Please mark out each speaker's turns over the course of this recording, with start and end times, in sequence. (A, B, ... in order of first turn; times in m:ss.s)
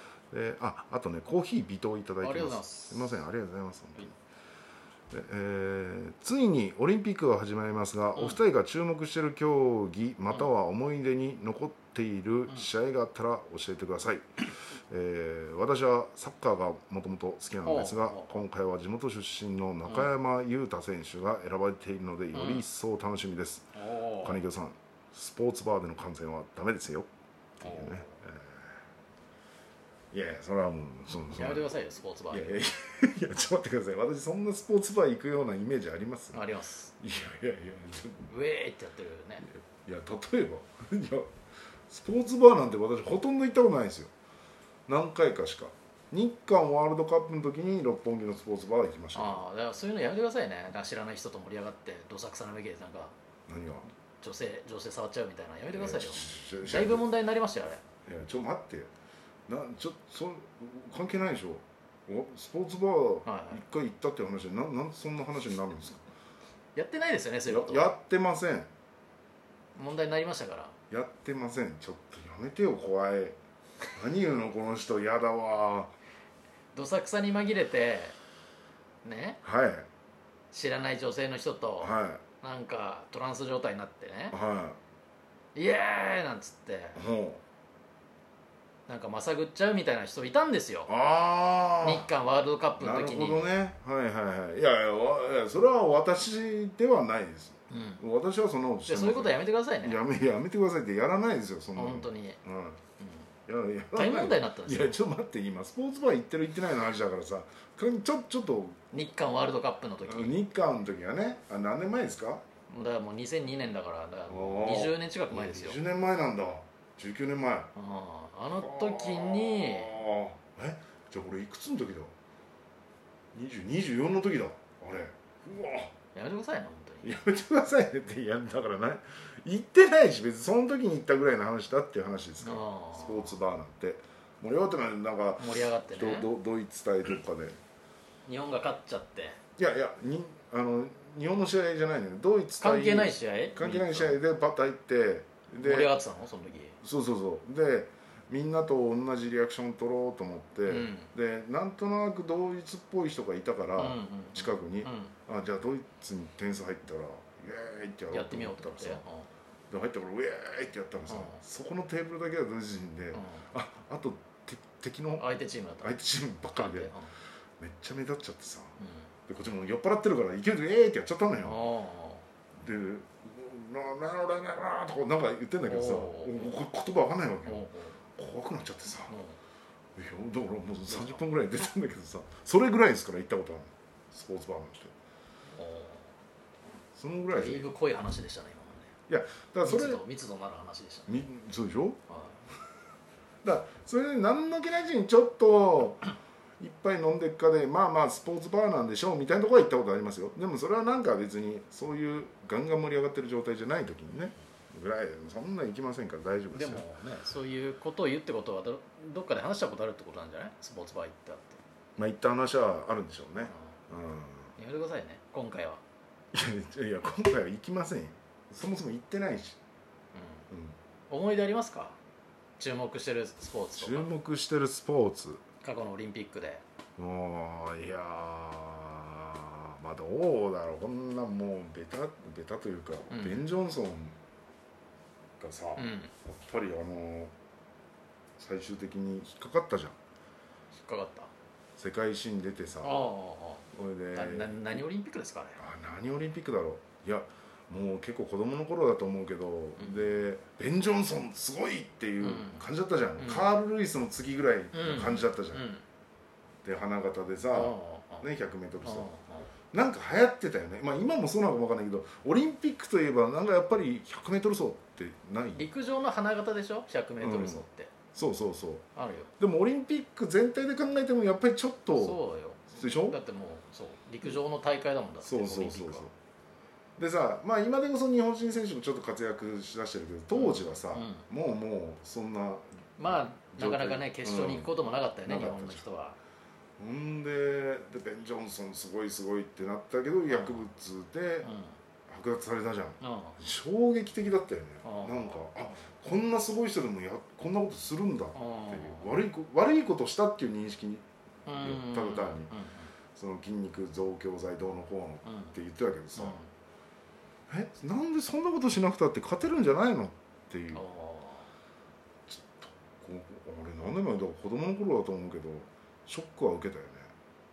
0:00.3-0:04.2 A
0:02.2-0:03.2 B
0:05.1-0:27.1 A
0:17.6-0:18.3 B
0:22.3-0:22.6 B
0:23.7-0:24.4 B
0:27.6-0:28.7 A
0:27.6-0:28.1 B
0:30.1-0:31.7 A
0:31.3-0:32.6 B
0:32.3-0:36.4 A
0:36.3-0:36.9 B
0:37.0-0:38.3 A
0:38.3-0:39.4 B
0:39.4-0:41.3 A
0:41.9-0:44.1 A
0:44.9-0:49.4 A
0:49.1-0:53.1 B
0:53.5-0:53.9 A
0:54.2-0:57.8 B
0:55.7-0:57.1 A
0:58.0-0:58.9 A
0:59.5-1:06.0 A
1:03.2-1:03.6 B
1:06.7-1:07.9 B
1:07.5-1:08.7 A
1:09.8-1:10.8 B
1:10.9-1:13.4 A
1:13.9-1:15.9 A
1:16.7-1:18.2 B
1:19.0-1:19.4 B
1:19.4-1:19.9 A
1:20.5-1:24.4 B
1:21.8-1:22.2 A
1:24.3-1:24.8 A
1:25.5-1:27.0 B
1:26.9-1:27.4 A
1:28.9-1:30.9 B
1:30.9-1:32.1 A
1:31.8-1:33.4 B
1:32.8-1:42.8 A
1:37.7-1:38.0 B
1:38.8-1:40.0 B
1:41.7-1:42.4 B
1:43.5-1:48.8 A
1:43.9-1:45.0 B
1:48.9-1:50.4 B
1:50.0-1:52.4 A
1:52.7-1:55.8 B
1:54.3-1:57.7 A
1:57.7-1:59.9 B
1:58.5-2:02.1 A
2:03.3-2:05.9 A
2:06.1-2:07.1 B
2:07.0-2:17.6 A
2:12.4-2:13.4 B
2:15.4-2:16.3 B
2:18.2-2:19.4 B
2:19.6-2:26.0 A
2:22.6-2:24.2 B
2:25.6-2:26.8 B
2:26.8-2:39.0 A
2:30.6-2:31.1 B
2:33.8-2:35.1 B
2:38.1-2:39.3 B
2:39.7-2:46.9 A
2:41.1-2:41.4 B
2:43.1-2:43.4 B
2:45.2-2:46.0 B
2:46.5-2:47.1 B
2:47.6-2:48.8 A
2:48.8-2:49.1 B
2:49.3-2:51.7 A
2:51.4-2:52.2 B
2:52.6-2:59.2 A
2:55.6-2:56.5 B
2:57.4-2:58.0 B
2:59.1-2:59.4 B
3:00.0-3:04.9 A
3:00.9-3:01.2 B
3:05.5-3:06.1 B
3:06.9-3:07.7 A
3:07.3-3:08.9 B
3:09.1-3:10.0 A
3:09.6-3:11.2 B
3:11.1-3:12.0 A
3:12.1-3:12.4 B
3:13.4-3:26.8 A
3:26.5-3:31.6 B
3:32.0-3:34.5 A
3:34.6-3:35.8 B
3:36.3-3:39.6 A
3:40.2-3:40.4 B
3:40.5-3:40.8 A
3:41.1-3:42.0 B
3:42.6-3:44.1 B
3:43.8-3:45.4 A
3:45.6-3:46.6 B
3:47.0-3:54.2 A
3:53.1-3:53.4 B
3:55.4-3:57.3 A
3:55.8-3:56.1 B
3:58.4-4:00.0 A
4:00.7-4:01.3 B
4:01.8-4:03.1 A
4:02.8-4:05.6 B
4:03.7-4:04.8 A
4:05.6-4:15.7 A
4:09.8-4:10.2 B
4:12.2-4:12.6 B
4:13.2-4:13.5 B
4:14.7-4:15.8 B
4:16.6-4:19.1 A
4:17.5-4:18.3 B
4:18.8-4:19.5 B
4:19.7-4:25.7 A
4:25.5-4:27.9 B
4:27.2-4:28.8 A
4:29.0-4:29.3 B
4:29.4-4:33.2 A
4:32.0-4:36.1 B
4:35.2-4:36.1 A
4:37.0-4:44.7 A
4:40.3-4:41.2 B
4:43.0-4:46.2 B
4:45.2-4:45.8 A
4:46.8-4:51.5 A
4:50.3-4:50.7 B
4:51.4-4:51.7 B
4:52.1-5:02.6 A
4:53.0-4:53.4 B
4:54.8-4:55.6 B
4:58.3-4:59.2 B
5:01.4-5:02.9 B
5:03.1-5:06.4 A
5:05.2-5:05.5 B
5:06.2-5:06.5 B
5:07.5-5:10.8 A
5:10.7-5:11.5 B
5:12.3-5:17.1 A